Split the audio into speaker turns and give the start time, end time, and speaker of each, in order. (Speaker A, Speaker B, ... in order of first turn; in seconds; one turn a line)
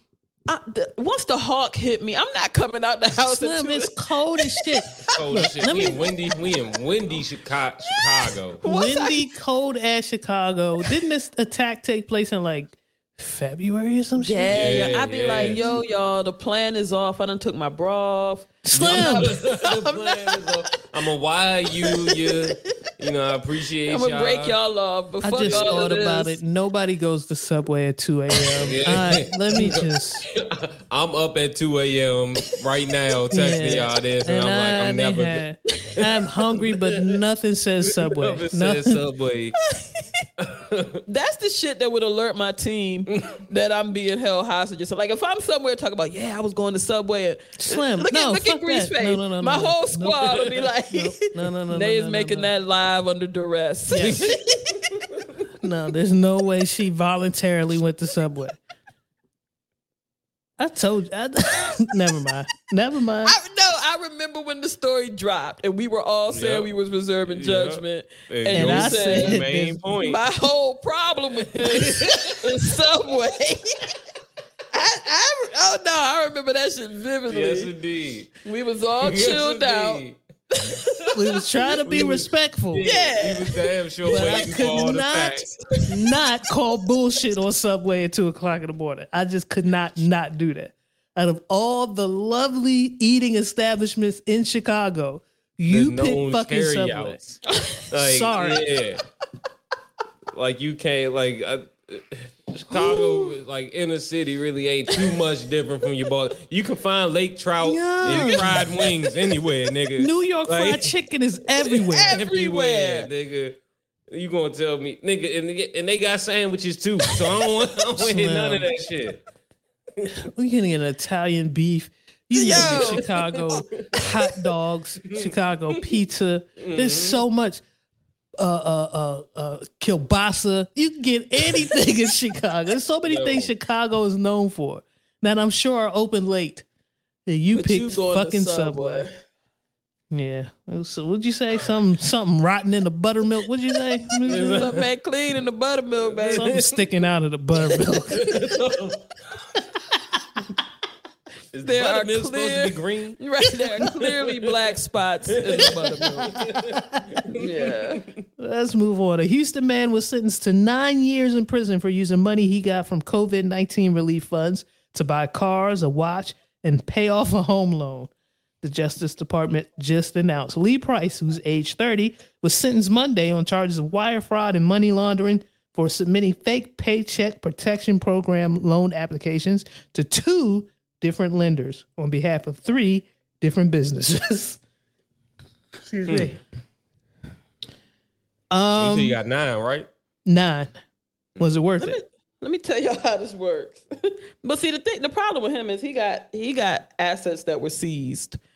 Speaker A: 0.5-4.9
Speaker B: 3.2-6.0
Speaker C: 5.1-8.6
Speaker A: 7.9-9.3
Speaker B: 8.6-15.7
Speaker A: 14.2-20.4
Speaker C: 14.5-15.6
Speaker B: 18.6-19.6
Speaker C: 18.7-24.6
Speaker A: 22.1-22.4
Speaker A: 23.9-26.4
Speaker B: 25.2-30.3
Speaker C: 25.4-26.0
Speaker C: 28.6-35.4
Speaker B: 33.3-39.0
Speaker C: 37.9-39.5
Speaker A: 39.7-40.2
Speaker C: 40.4-41.0
Speaker A: 41.1-54.4
Speaker C: 43.1-43.4
Speaker B: 47.6-52.5
Speaker B: 53.9-54.3
Speaker C: 54.0-54.3
Speaker B: 55.6-58.6
Speaker B: 60.6-63.4
Speaker A: 63.2-69.5
Speaker C: 66.3-66.7
Speaker C: 67.2-70.2
Speaker B: 68.5-69.8
Speaker A: 70.0-73.9
Speaker C: 71.6-72.6
Speaker A: 74.7-77.7
Speaker C: 77.3-78.3
Speaker A: 78.4-81.1
Speaker C: 79.0-80.2
Speaker B: 81.1-82.9
Speaker C: 81.8-85.8
Speaker A: 82.8-84.8
Speaker B: 84.1-97.2
Speaker C: 95.7-99.0
Speaker A: 97.5-97.8
Speaker B: 97.9-98.6
Speaker C: 100.3-110.9
Speaker A: 102.7-103.3
Speaker B: 107.6-108.6
Speaker A: 108.0-108.5
Speaker B: 110.0-112.2
Speaker A: 111.8-113.1
Speaker C: 112.1-119.2
Speaker B: 118.0-118.8
Speaker B: 120.2-127.6
Speaker A: 122.3-123.0
Speaker C: 122.5-123.9
Speaker C: 126.6-127.2
Speaker B: 128.4-136.7
Speaker C: 133.1-133.5
Speaker B: 137.2-139.1
Speaker A: 137.5-139.2
Speaker B: 140.1-144.7
Speaker C: 144.2-144.8
Speaker A: 144.3-146.6
Speaker C: 146.1-146.8
Speaker B: 146.3-148.3
Speaker C: 148.1-149.1
Speaker C: 151.5-154.5
Speaker A: 151.6-156.4
Speaker C: 155.4-158.2
Speaker A: 157.3-158.0
Speaker B: 158.4-168.1
Speaker B: 168.6-184.6
Speaker B: 185.9-186.4
Speaker C: 186.1-186.3
Speaker B: 188.5-189.2
Speaker C: 188.8-189.9
Speaker B: 190.2-190.7
Speaker B: 191.4-192.0
Speaker A: 191.8-198.4